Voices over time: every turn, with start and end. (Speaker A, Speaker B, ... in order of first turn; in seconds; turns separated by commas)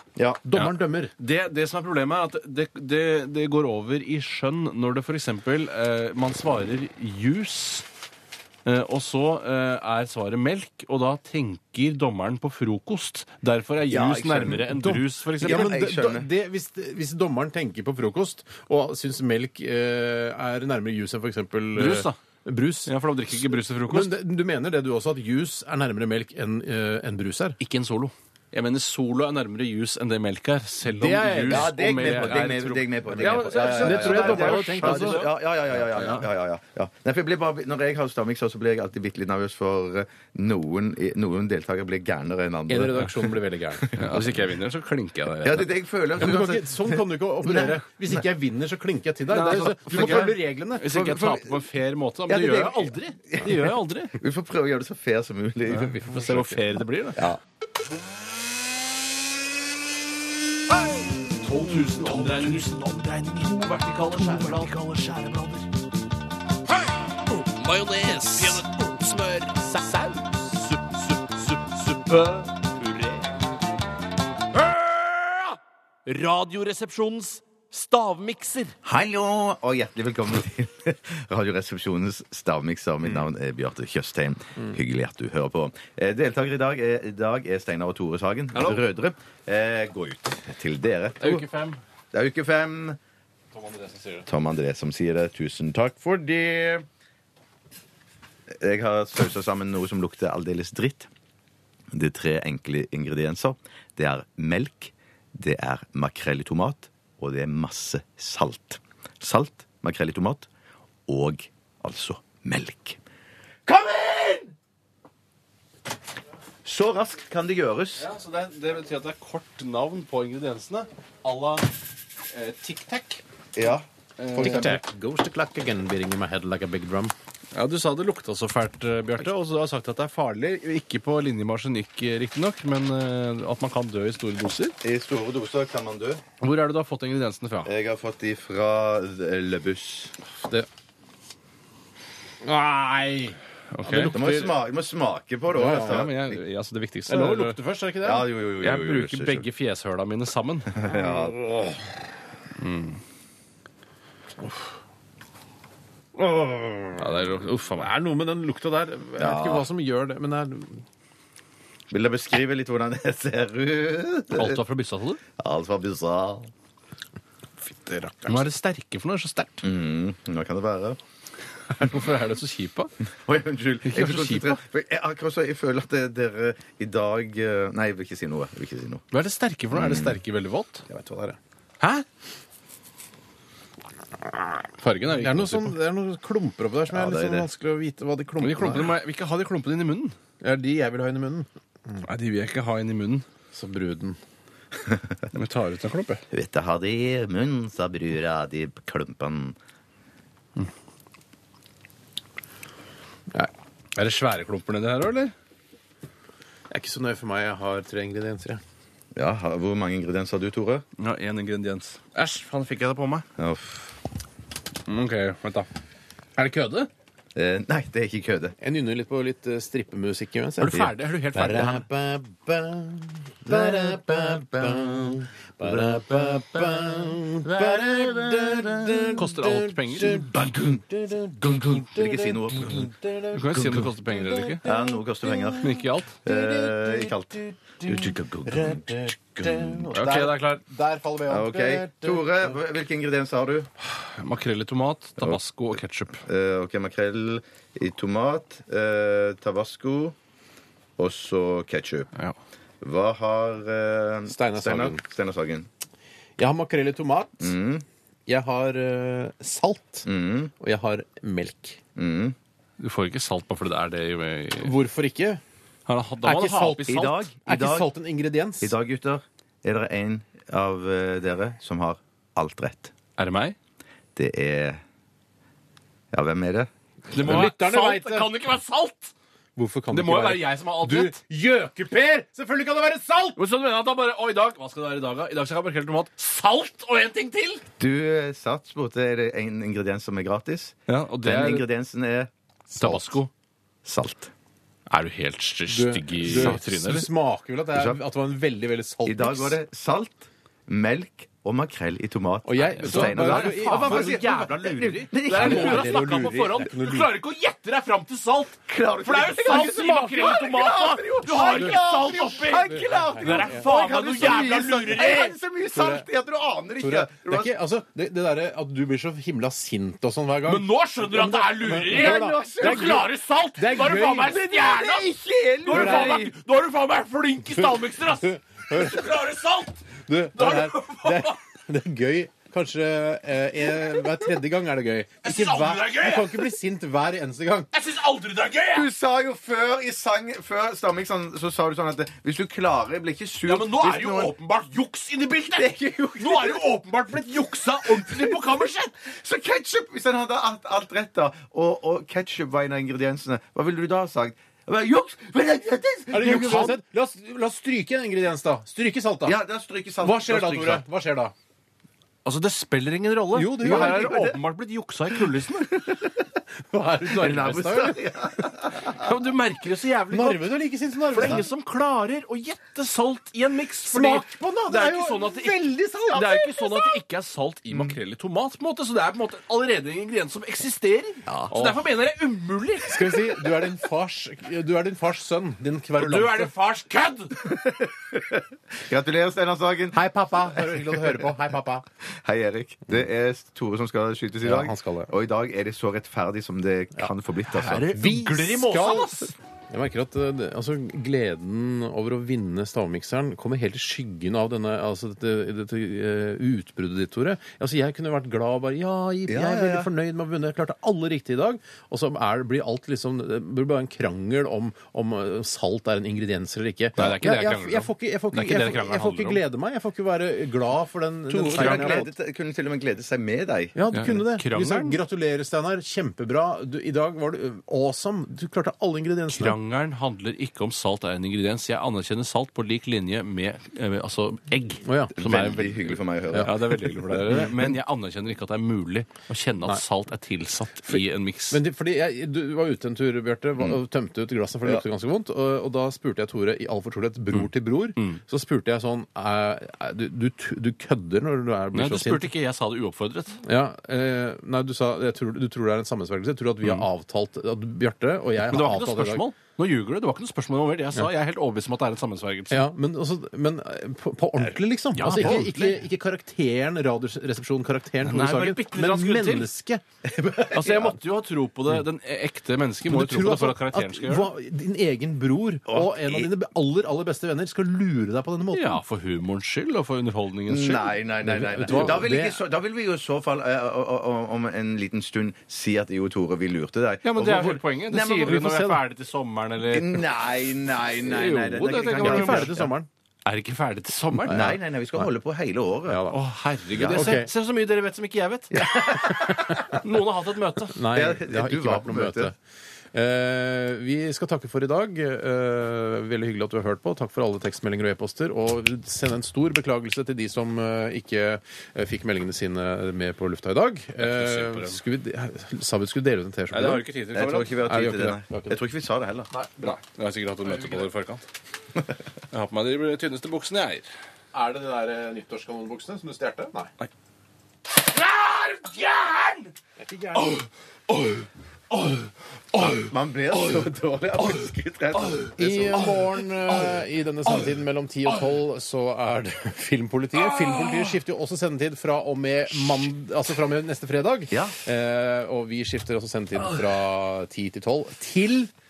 Speaker A: 0.2-0.4, Speaker B: 0.4-1.1, Speaker C: 0.5-7.8, Speaker C: 8.6-15.7, Speaker A: 13.9-14.7, Speaker B: 14.7-22.9, Speaker A: 15.4-16.3, Speaker C: 21.7-22.2, Speaker C: 22.9-24.2, Speaker B: 23.9-27.6, Speaker C: 27.6-32.5, Speaker B: 30.8-35.3, Speaker A: 31.5-44.4, Speaker C: 33.1-36.3, Speaker B: 42.7-44.0, Speaker C: 44.0-45.7, Speaker A: 45.4-48.2, Speaker B: 46.2-51.0, Speaker C: 49.3-54.1, Speaker A: 49.5-50.3, Speaker A: 50.9-51.5, Speaker A: 52.3-56.4, Speaker C: 55.7-57.2, Speaker B: 56.1-56.6, Speaker C: 61.2-65.7, Speaker C: 67.3-69.7, Speaker B: 69.8-70.2, Speaker C: 70.5-73.3, Speaker C: 74.5-78.7, Speaker A: 78.8-91.5, Speaker C: 88.5-88.8, Speaker C: 91.2-91.8, Speaker A: 92.1-93.0, Speaker C: 93.5-94.3, Speaker A: 94.3-96.7, Speaker C: 96.5-96.8, Speaker A: 98.6-101.1, Speaker A: 101.9-110.5, Speaker A: 111.1-113.0, Speaker A: 113.7-114.5, Speaker A: 116.6-118.1, Speaker C: 118.0-121.7, Speaker C: 122.3-123.2, Speaker A: 123.5-123.8, Speaker C: 124.2-124.8, Speaker B: 124.3-127.1, Speaker A: 124.4-124.7, Speaker C: 127.5-134.7, Speaker A: 134.8-136.2, Speaker C: 136.4-137.7, Speaker A: 137.6-140.1, Speaker B: 142.4-144.5, Speaker C: 143.7-144.3, Speaker A: 144.0-146.4, Speaker B: 145.5-146.0, Speaker C: 145.6-147.6, Speaker B: 147.1-148.3, Speaker A: 148.0-149.5, Speaker C: 148.6-150.7, Speaker A: 150.7-151.4, Speaker B: 150.9-151.8, Speaker C: 152.6-153.0, Speaker B: 156.2-160.8, Speaker C: 157.0-157.9, Speaker A: 159.2-159.7, Speaker A: 161.9-164.6, Speaker C: 164.3-165.2, Speaker A: 165.4-166.5, Speaker B: 167.6-168.4, Speaker C: 168.2-169.7, Speaker A: 169.6-171.0, Speaker C: 171.7-172.9, Speaker A: 173.2-179.0, Speaker C: 173.8-174.6, Speaker C: 179.1-180.8, Speaker A: 179.7-180.2, Speaker B: 180.9-181.4, Speaker C: 181.8-182.1, Speaker C: 184.7-185.7, Speaker B: 185.1-188.9, Speaker A: 186.9-187.5, Speaker C: 188.4-190.2, Speaker B: 190.4-192.1, Speaker C: 192.0-193.2, Speaker B: 193.5-194.2, Speaker C: 195.3-196.2, Speaker A: 196.3-199.6, Speaker C: 203.9-205.3, Speaker B: 206.7-208.6, Speaker A: 209.1-210.8, Speaker C: 211.0-213.3, Speaker A: 213.4-213.9, Speaker C: 214.9-215.7, Speaker C: 216.4-216.9, Speaker A: 217.3-218.5, Speaker B: 218.6-220.8, Speaker C: 220.6-221.8, Speaker A: 220.7-221.8, Speaker B: 221.3-242.6, Speaker A: 223.5-224.9, Speaker A: 227.5-229.1, Speaker C: 229.1-230.3, Speaker A: 230.3-230.8, Speaker A: 231.4-232.9, Speaker C: 233.3-234.6, Speaker A: 234.6-239.9, Speaker C: 235.6-236.2, Speaker C: 239.9-240.6, Speaker A: 241.3-243.7, Speaker C: 243.8-246.2, Speaker A: 246.2-250.2, Speaker A: 251.0-252.1, Speaker A: 252.8-255.7, Speaker B: 254.3-255.0, Speaker B: 256.4-257.5, Speaker A: 257.4-257.8, Speaker B: 258.3-260.1, Speaker A: 260.1-260.5, Speaker B: 260.6-261.8, Speaker A: 261.9-262.4, Speaker C: 262.8-264.7, Speaker B: 264.6-265.4, Speaker C: 265.9-267.1, Speaker B: 266.2-268.8, Speaker A: 266.8-267.9, Speaker A: 268.6-272.9, Speaker C: 273.2-273.6, Speaker A: 274.1-274.8, Speaker A: 276.1-276.7, Speaker C: 277.1-279.1, Speaker B: 277.1-278.3, Speaker B: 279.6-283.4, Speaker C: 279.9-281.2, Speaker C: 283.4-287.6, Speaker A: 287.8-292.3, Speaker C: 290.9-291.6, Speaker B: 292.7-293.1, Speaker C: 292.8-293.3, Speaker A: 293.8-294.3, Speaker C: 294.9-297.1, Speaker B: 295.7-299.6, Speaker A: 296.3-296.6, Speaker A: 297.7-298.0, Speaker A: 299.0-306.0, Speaker B: 302.4-304.5, Speaker C: 302.6-315.3, Speaker B: 305.3-307.1, Speaker A: 308.7-317.5, Speaker B: 309.7-310.4, Speaker B: 311.2-314.5, Speaker B: 315.7-316.1, Speaker B: 316.8-324.4, Speaker C: 320.4-329.8, Speaker A: 321.8-323.1, Speaker A: 324.1-326.3, Speaker B: 325.7-326.2, Speaker B: 327.4-329.2, Speaker B: 330.0-337.7, Speaker C: 330.3-331.4, Speaker C: 335.2-336.5, Speaker C: 337.7-338.9, Speaker A: 338.7-344.4, Speaker C: 343.4-348.9, Speaker A: 345.5-346.7, Speaker A: 347.6-356.8, Speaker B: 356.1-359.4, Speaker C: 356.2-356.6, Speaker A: 359.2-360.8, Speaker B: 360.0-361.3, Speaker C: 362.2-365.7, Speaker B: 363.3-364.2, Speaker A: 363.6-364.4, Speaker A: 365.6-366.1, Speaker B: 366.7-368.0, Speaker A: 367.1-368.9, Speaker C: 368.7-370.5, Speaker B: 370.1-371.4, Speaker C: 371.1-383.7, Speaker B: 373.8-376.6, Speaker A: 376.1-377.0, Speaker A: 377.7-378.0, Speaker A: 381.3-381.5, Speaker B: 381.3-381.7, Speaker B: 382.9-386.5, Speaker C: 386.0-387.5, Speaker A: 387.4-391.3, Speaker B: 389.9-391.8, Speaker A: 392.2-397.9, Speaker B: 394.4-395.1, Speaker C: 397.5-399.4, Speaker B: 397.9-422.1, Speaker A: 409.3-409.9, Speaker C: 417.0-419.4, Speaker A: 421.3-423.7, Speaker C: 421.5-422.0, Speaker B: 423.7-429.6, Speaker C: 423.9-425.0, Speaker C: 429.3-441.6, Speaker B: 434.8-435.1, Speaker A: 435.1-436.7, Speaker B: 440.9-452.3, Speaker C: 451.7-453.4, Speaker B: 453.4-459.3, Speaker C: 456.6-456.9, Speaker C: 458.5-462.7, Speaker B: 462.5-470.9, Speaker C: 464.9-465.8, Speaker C: 468.0-469.5, Speaker A: 470.2-470.7, Speaker C: 470.5-474.3, Speaker B: 472.8-478.8, Speaker A: 475.7-476.3, Speaker C: 478.5-481.0, Speaker A: 480.5-488.4, Speaker B: 481.2-482.4, Speaker C: 481.7-482.0, Speaker C: 487.0-490.0, Speaker B: 488.2-488.8, Speaker A: 489.6-492.7, Speaker C: 490.9-492.6, Speaker B: 491.9-492.9, Speaker C: 493.2-494.5, Speaker B: 494.1-495.1, Speaker A: 494.3-496.0, Speaker B: 495.9-496.2, Speaker C: 496.1-500.8, Speaker A: 496.7-497.2, Speaker B: 496.9-497.3, Speaker A: 498.5-499.6, Speaker B: 498.8-499.8, Speaker B: 500.7-502.3, Speaker A: 500.9-502.3, Speaker B: 502.9-516.9, Speaker C: 514.0-514.8, Speaker C: 516.5-517.6, Speaker A: 517.1-519.3, Speaker B: 517.6-518.6, Speaker B: 519.3-520.9, Speaker C: 519.6-521.2, Speaker C: 522.3-523.9, Speaker B: 524.3-526.7, Speaker C: 527.8-529.5, Speaker B: 529.8-530.4, Speaker C: 530.2-533.6, Speaker A: 532.9-536.2, Speaker C: 535.0-535.2, Speaker B: 535.4-548.5, Speaker C: 540.4-540.8